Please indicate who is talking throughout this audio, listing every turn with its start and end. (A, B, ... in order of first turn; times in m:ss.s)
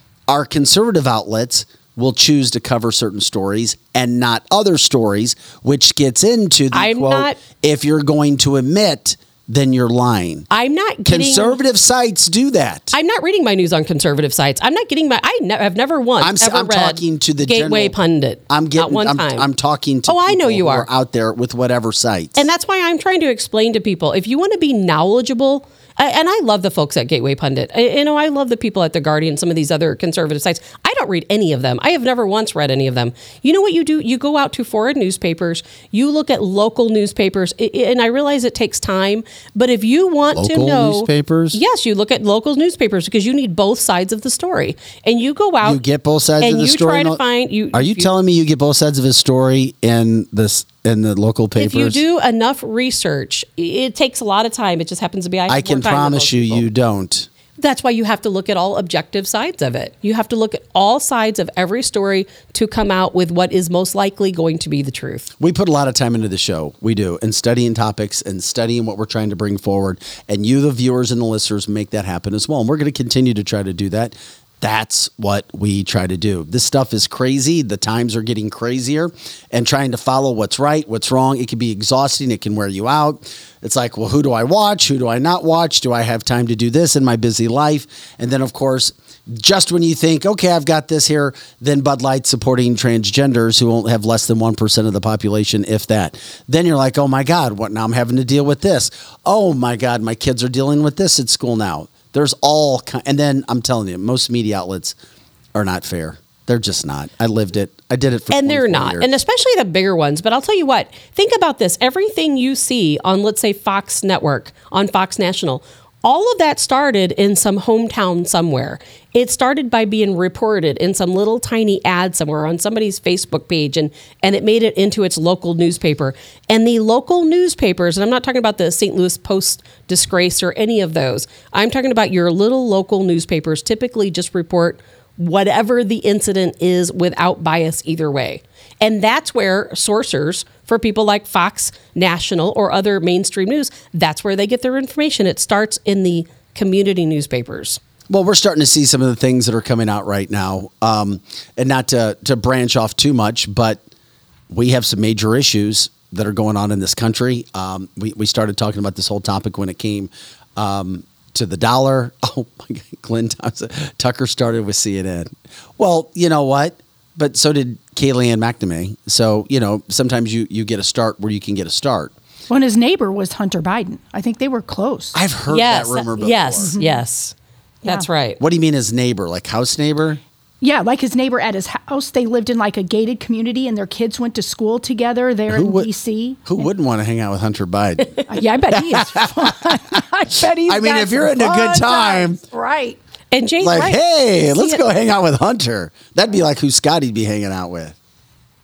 0:00.3-0:10.5 A
0:06.7-0:07.4 B
0:10.5-0:11.6 B
0:11.0-0:12.9 A
0:12.9-0:19.5 B
0:16.2-0:18.0 A
0:18.5-0:22.5 A
0:20.1-0:20.9 B
0:22.4-0:45.8 B
0:40.3-0:41.6 A
0:45.6-0:47.2 A
0:46.4-0:48.1 B
0:47.7-0:52.0 A
0:51.6-0:56.7 B
0:55.5-0:57.3 A
0:57.6-1:05.3 B
1:05.4-1:45.0 A
1:45.6-1:49.1 A
1:48.3-2:27.8 B
2:28.1-2:33.8 A
2:34.5-2:52.1 A
2:52.5-2:55.2 C
2:55.2-2:56.7 A
2:55.5-2:58.4 B
2:56.8-2:57.0 C
2:58.4-3:00.2 A
3:00.6-3:06.6 C
3:05.5-3:05.9 A
3:06.5-3:08.2 A
3:08.3-3:13.0 C
3:08.9-3:09.5 A
3:10.7-3:12.4 A
3:13.3-3:14.0 B
3:13.6-3:18.0 A
3:14.5-3:14.8 B